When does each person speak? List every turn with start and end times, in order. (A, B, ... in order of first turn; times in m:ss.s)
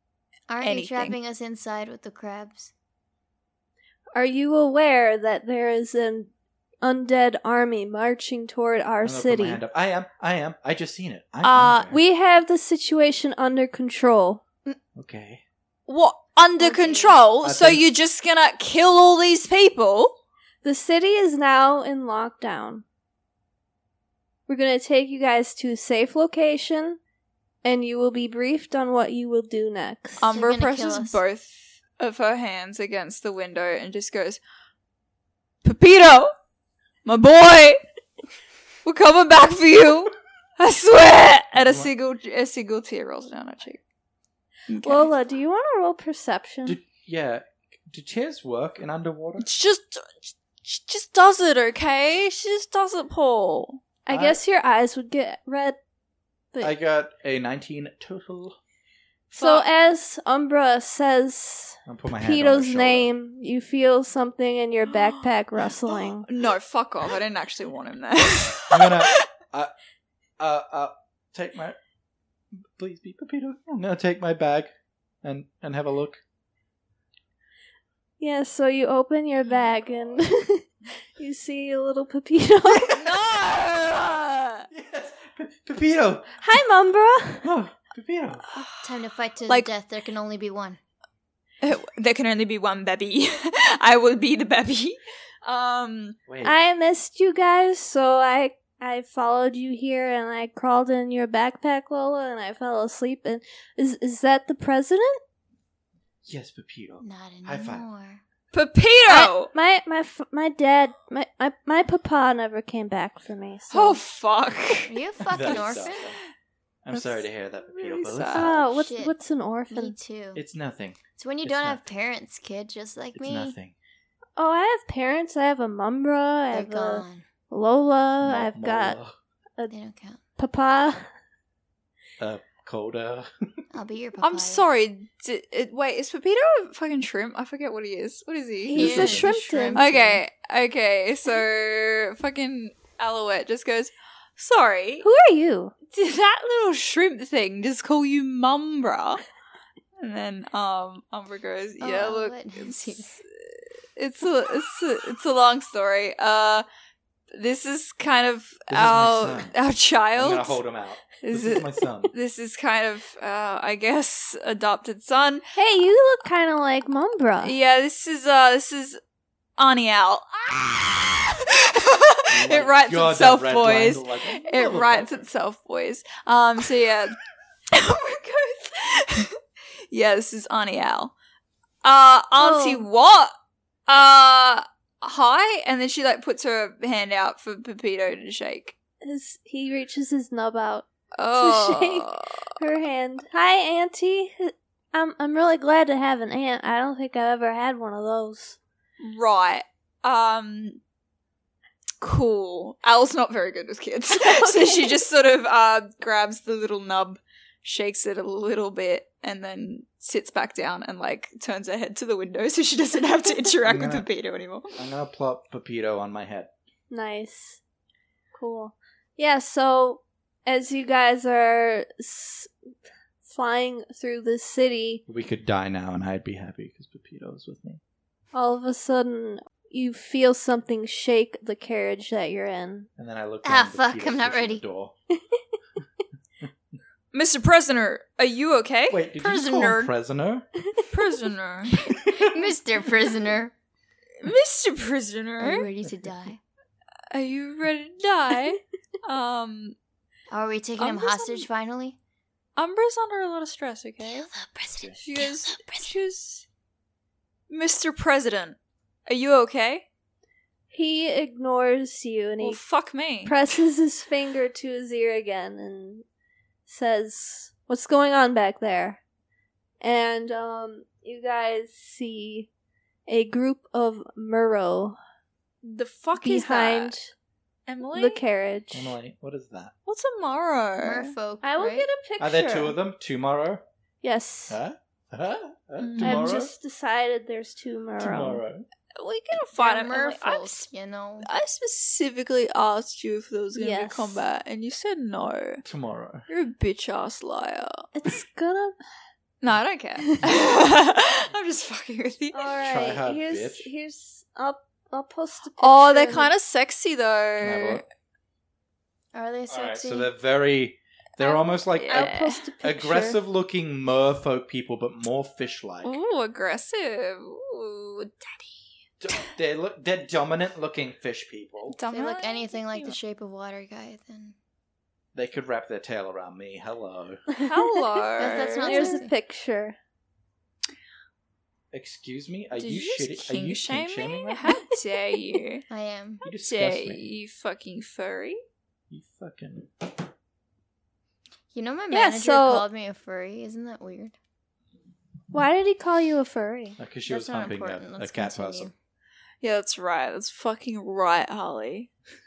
0:00.5-0:02.7 A
0:00.6-0:01.2 B
0:04.1-0:06.3 C
0:06.8-0:09.6 C
0:09.0-0:12.0 D
0:11.4-0:11.9 B
0:11.9-0:14.4 C
0:14.9-0:15.4 D
0:15.9-0:20.1 B
0:16.6-0:17.2 A
0:17.4-0:17.8 D
0:20.6-0:22.8 C
0:24.5-0:27.0 C
0:27.6-0:30.3 C
0:30.2-0:34.4 B
0:30.3-0:31.2 A
0:35.6-0:36.3 B
0:37.0-0:37.8 B
0:38.8-0:43.8 B
0:41.5-0:41.9 D
0:44.7-0:45.1 B
0:44.8-0:46.8 C
0:46.6-0:49.5 D
0:49.4-0:53.8 B
0:54.0-0:55.8 C
0:54.1-0:54.4 D
0:56.6-0:58.6 D
0:59.3-0:59.7 B
0:59.3-1:06.3 C
1:01.8-1:03.1 D
1:04.9-1:05.2 B
1:05.8-1:09.2 B
1:08.7-1:09.7 D
1:10.4-1:11.8 D
1:12.5-1:14.7 D
1:15.2-1:16.2 D
1:18.2-1:23.0 C
1:22.8-1:24.6 B
1:24.7-1:26.4 D
1:26.4-1:27.5 C
1:27.4-1:28.4 D
1:28.5-1:29.7 B
1:28.8-1:30.8 A
1:31.6-1:36.2 B
1:36.3-1:36.6 D
1:36.4-1:45.2 C
1:46.2-1:47.8 D
1:47.0-1:48.2 A
1:48.5-1:49.5 B
1:49.1-1:54.0 C
1:53.7-1:55.9 B
1:54.9-1:56.1 A
1:55.3-1:56.2 D
1:56.8-1:58.6 D
1:56.9-1:58.5 B
1:58.3-1:59.9 C
1:58.6-1:59.1 A
1:59.7-2:00.4 A
2:00.3-2:01.8 D
2:01.2-2:03.5 A
2:03.1-2:03.7 D
2:04.4-2:09.0 C
2:06.5-2:07.2 A
2:08.2-2:09.1 D
2:09.7-2:10.2 A
2:10.4-2:11.1 C
2:12.2-2:13.3 D
2:13.7-2:14.6 A
2:14.2-2:25.0 B
2:18.7-2:20.2 A
2:18.7-2:19.8 C
2:25.0-2:25.7 C
2:25.9-2:29.2 B
2:30.0-2:36.6 B
2:31.8-2:33.1 A
2:37.3-2:40.6 B
2:38.7-2:39.5 D
2:40.2-2:42.1 D
2:41.2-2:45.4 B
2:45.5-2:47.5 C
2:47.4-2:49.0 B
2:49.6-2:57.2 B
2:52.3-2:55.2 D
2:57.7-2:59.4 B
2:59.9-3:01.1 B
3:01.8-3:03.3 B
3:02.4-3:02.8 C
3:03.9-3:08.7 B
3:09.0-3:18.6 C
3:11.1-3:12.3 B
3:19.0-3:20.8 B
3:22.0-3:34.8 B
3:24.1-3:25.0 C
3:33.6-3:34.0 D
3:34.8-3:36.5 D
3:36.9-3:37.6 C
3:38.3-3:42.5 C
3:43.2-3:45.0 C
3:45.1-3:47.8 D
3:48.3-3:52.9 C
3:53.0-3:54.9 D
3:53.4-3:54.6 A
3:57.1-3:59.0 B
3:58.9-4:00.5 D
3:59.2-3:59.9 A
4:00.9-4:01.8 B
4:01.8-4:02.5 D
4:01.9-4:03.5 A
4:04.2-4:05.7 B
4:05.4-4:06.4 A
4:07.1-4:09.8 B
4:10.3-4:12.0 A
4:10.8-4:11.4 B
4:12.6-4:14.3 B
4:14.0-4:15.9 A
4:15.0-4:16.4 B
4:17.5-4:19.8 B
4:20.7-4:22.6 C
4:22.4-4:23.4 B
4:23.2-4:26.0 C
4:26.7-4:29.0 C
4:29.8-4:32.5 C
4:33.1-4:35.0 C
4:35.6-4:36.9 B
4:36.2-4:37.1 C
4:37.7-4:38.2 B
4:37.9-4:38.9 C
4:38.7-4:39.7 D
4:39.8-4:41.1 B
4:40.8-4:41.9 A
4:41.4-4:42.8 C
4:42.2-4:43.6 D
4:44.0-4:44.6 C
4:44.5-4:46.5 D
4:45.8-4:46.3 B
4:46.0-4:48.4 C
4:48.0-4:48.6 D
4:49.0-4:50.7 B
4:49.6-4:51.3 A
4:51.2-4:55.6 B
4:53.5-4:54.2 C
4:55.6-4:56.2 D
4:56.3-4:57.8 B
4:57.9-4:58.7 C
4:59.4-5:02.5 B
5:02.3-5:06.3 C
5:02.6-5:03.7 D
5:05.6-5:07.8 B
5:07.4-5:07.8 D
5:09.1-5:10.1 A
5:09.5-5:16.0 D
5:11.2-5:13.2 C
5:11.7-5:12.4 B
5:15.8-5:18.6 B
5:19.0-5:21.8 D
5:21.7-5:23.0 B
5:21.9-5:24.4 A
5:25.1-5:27.2 D
5:27.4-5:29.0 B
5:28.2-5:29.1 A
5:28.6-5:29.8 C
5:31.7-5:34.4 D
5:32.6-5:35.6 B
5:34.4-5:34.7 C
5:35.7-5:36.2 A
5:36.2-5:37.0 D
5:36.3-5:38.4 B
5:38.9-5:39.9 D
5:41.5-5:44.1 A
5:41.9-5:42.6 C
5:45.3-5:46.8 C
5:46.8-5:48.7 D
5:47.1-5:48.7 A
5:49.4-5:51.9 B